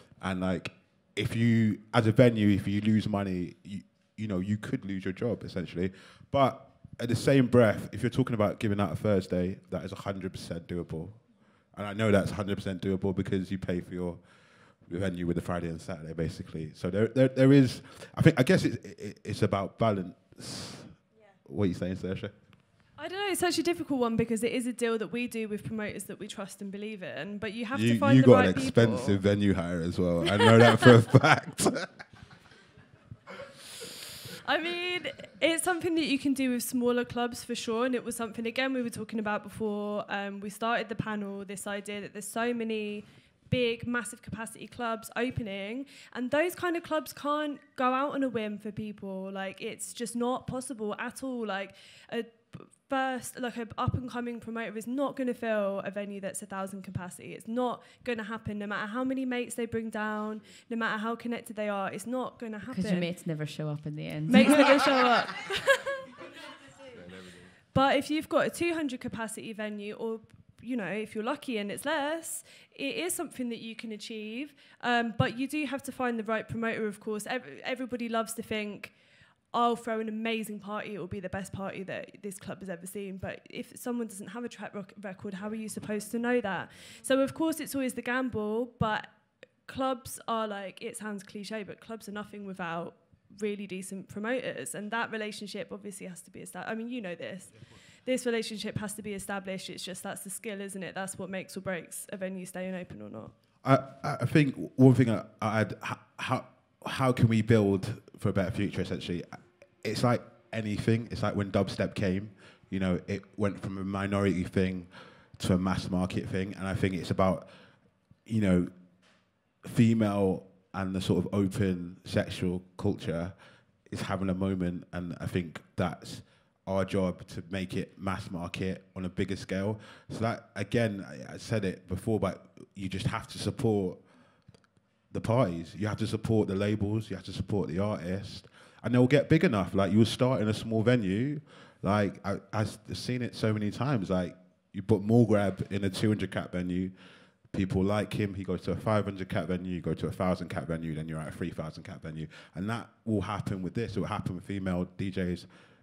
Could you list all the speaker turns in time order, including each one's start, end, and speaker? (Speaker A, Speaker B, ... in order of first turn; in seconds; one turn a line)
Speaker A: 0.2-11.2
Speaker A: 11.7-14.2
Speaker A: 14.8-22.3
Speaker B: 23.0-29.2
Speaker A: 27.7-31.9
Speaker B: 30.3-30.9
Speaker B: 34.4-63.1
Speaker C: 62.7-64.9
Speaker B: 64.3-66.1
Speaker B: 67.7-79.0
Speaker B: 79.5-103.3
Speaker A: 103.6-117.5
Speaker A: 118.2-118.7
Speaker A: 119.6-123.3
Speaker A: 123.9-134.0
Speaker A: 135.1-146.9
Speaker A: 147.5-155.5